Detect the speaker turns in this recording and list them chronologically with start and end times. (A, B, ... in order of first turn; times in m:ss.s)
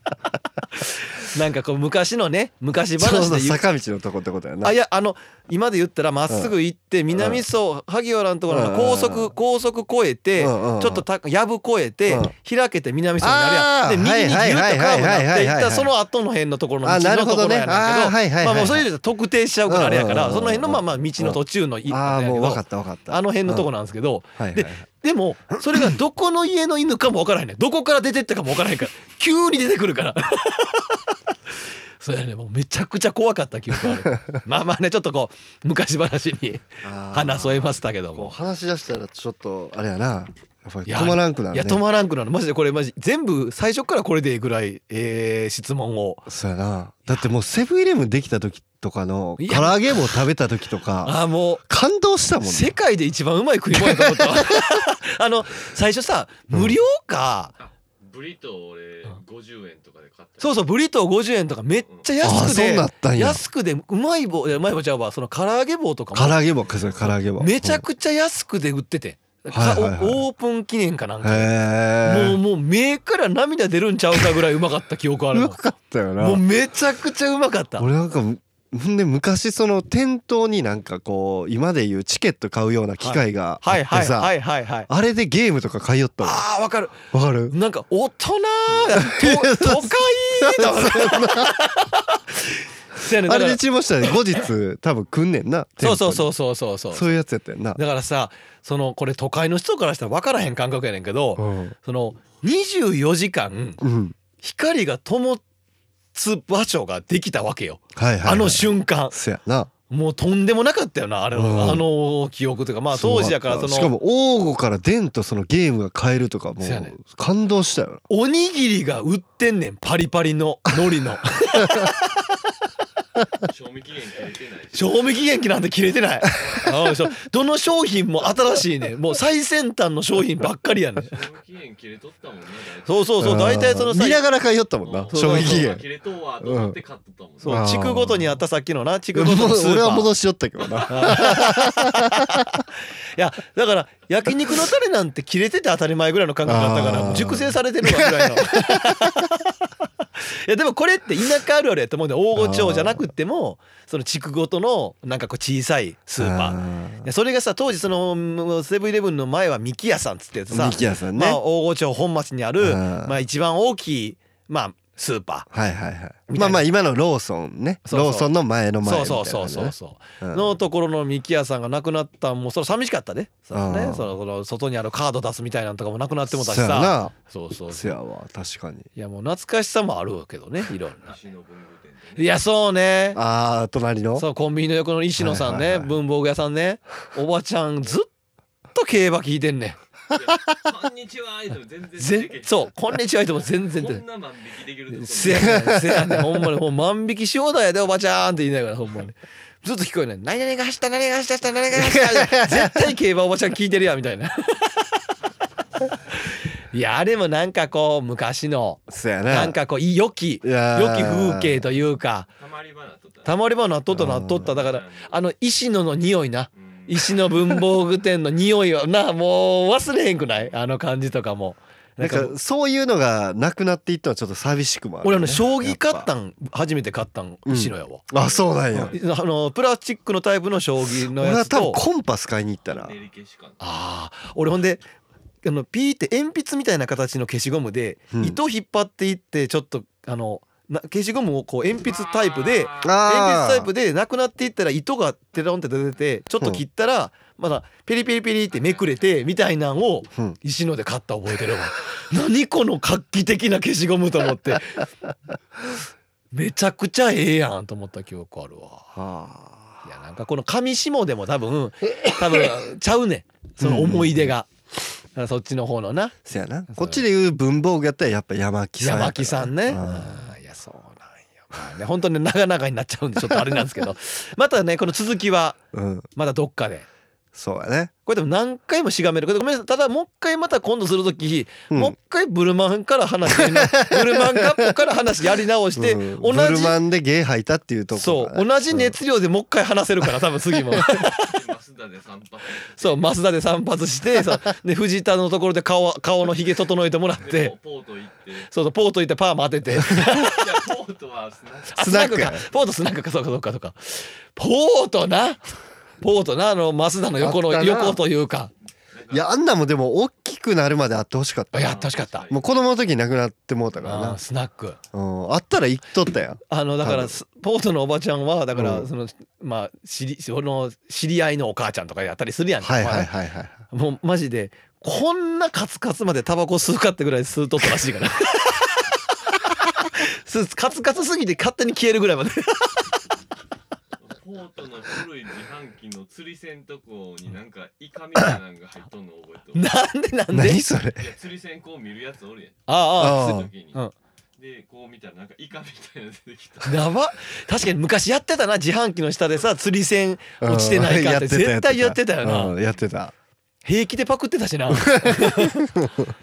0:00.8-0:03.6 A
0:03.0-0:04.7 B
0:04.6-0:31.3 A
0:07.1-0:07.4 B
0:08.5-0:09.3 B
0:10.4-0:11.0 B
0:13.2-0:15.9 B
0:16.8-0:18.9 B
0:19.7-0:23.7 B
0:24.4-0:24.8 B
0:32.0-0:38.3 A
0:36.8-0:41.8 B
0:40.9-0:46.3 A
0:46.3-0:51.2 B
0:49.4-0:50.2 A
0:51.0-0:51.6 A
0:51.7-0:52.7 B
0:52.4-0:57.5 A
0:53.7-0:54.7 B
0:56.5-0:56.8 B
0:57.6-1:00.6 C
1:00.4-1:06.4 A
1:02.2-1:03.4 B
1:06.1-1:07.8 B
1:06.6-1:07.1 C
1:07.4-1:11.5 A
1:09.5-1:10.2 B
1:11.2-1:12.4 B
1:12.0-1:15.6 A
1:15.3-1:16.4 B
1:16.2-1:17.9 A
1:17.8-1:24.3 B
1:23.0-1:24.9 A
1:24.9-1:26.4 B
1:26.2-1:34.4 A
1:27.0-1:27.5 B
1:29.0-1:31.6 B
1:33.0-1:36.3 B
1:35.8-1:37.2 A
1:36.9-1:37.8 B
1:37.8-1:43.8 A
1:41.4-1:41.7 B
1:43.8-1:44.2 B
1:44.4-1:45.4 A
1:46.1-1:49.2 A
1:47.9-1:49.7 B
1:49.9-1:53.9 A
1:51.3-1:51.8 B
1:52.9-1:58.0 B
1:56.6-1:56.9 A
1:58.1-2:02.4 A
2:03.4-2:05.4 C
2:04.7-2:11.2 A
2:06.2-2:06.7 C
2:11.0-2:13.1 C
2:12.8-2:14.2 A
2:13.2-2:15.8 B
2:14.8-2:17.6 C
2:15.1-2:15.7 A
2:16.4-2:16.8 B
2:17.4-2:20.1 A
2:17.5-2:18.3 B
2:19.1-2:22.6 B
2:20.6-2:20.9 C
2:20.9-2:29.6 A
2:26.4-2:29.2 B
2:30.2-2:45.5 A
2:32.4-2:33.0 B
2:36.2-2:37.1 B
2:40.5-2:41.4 B
2:42.6-2:43.1 B
2:45.5-2:50.6 B
2:46.3-2:46.6 A
2:47.8-2:48.3 A
2:48.8-2:58.0 A
2:53.5-2:54.1 B
2:56.3-2:57.1 B
2:57.7-2:58.9 B
2:59.0-3:01.1 A
3:01.0-3:02.4 C
3:02.2-3:03.2 A
3:03.1-3:04.2 B
3:04.2-3:08.1 A
3:05.2-3:05.9 B
3:08.7-3:09.8 A
3:10.1-3:15.8 C
3:12.0-3:14.0 A
3:14.9-3:25.0 A
3:15.3-3:16.4 B
3:21.7-3:22.9 B
3:26.7-3:32.3 A
3:28.9-3:29.6 B
3:30.4-3:31.6 B
3:32.4-3:33.5 C
3:33.2-3:42.3 A
3:33.9-3:34.5 B
3:34.5-3:35.3 C
3:36.6-3:37.3 C
3:42.0-3:46.1 B
3:45.0-3:48.0 A
3:47.4-3:48.9 B
3:48.1-3:49.1 C
3:48.8-3:51.8 A
3:51.0-3:52.9 B
3:52.6-3:53.8 C
3:53.6-3:54.8 A
3:55.4-4:14.8 A
3:58.1-3:58.4 B
4:01.9-4:02.9 C
4:02.8-4:03.7 B
4:08.5-4:09.0 C
4:16.3-4:18.9 A
4:18.9-4:19.8 B
4:19.8-4:24.5 A
4:23.6-4:24.3 B
4:25.1-4:26.1 A
4:26.2-4:30.3 B
4:26.7-4:27.0 A
4:28.8-4:35.6 A
4:35.7-4:36.1 B
4:36.2-4:36.8 A
4:37.3-4:37.9 B
4:38.0-4:46.8 A
4:41.7-4:41.9 B
4:43.4-4:44.7 B
4:45.8-4:49.0 B
4:47.9-4:51.3 A
4:50.9-4:53.0 C
4:52.8-4:57.5 A
4:57.2-4:58.5 C
4:58.5-5:00.5 A
5:00.0-5:01.8 C
5:01.7-5:05.5 A
5:01.8-5:02.4 B
5:06.0-5:08.5 A
5:07.2-5:08.0 B
5:08.9-5:09.2 C
5:09.1-5:14.2 B
5:11.5-5:12.3 A
5:11.6-5:12.4 C
5:13.8-5:14.8 A
5:14.9-5:17.1 B
5:16.5-5:23.1 A
5:18.5-5:18.9 B
5:22.6-5:23.6 B
5:23.7-5:28.9 A
5:29.8-5:32.9 A
5:34.0-5:39.7 C
5:39.5-5:40.6 A
5:40.3-5:41.1 B
5:41.0-5:43.8 C
5:42.7-5:43.9 A
5:43.0-5:43.5 B
5:44.4-5:46.9 C
5:46.6-5:52.5 A
5:50.4-5:53.1 B
5:53.6-5:55.7 A
5:54.7-5:56.1 B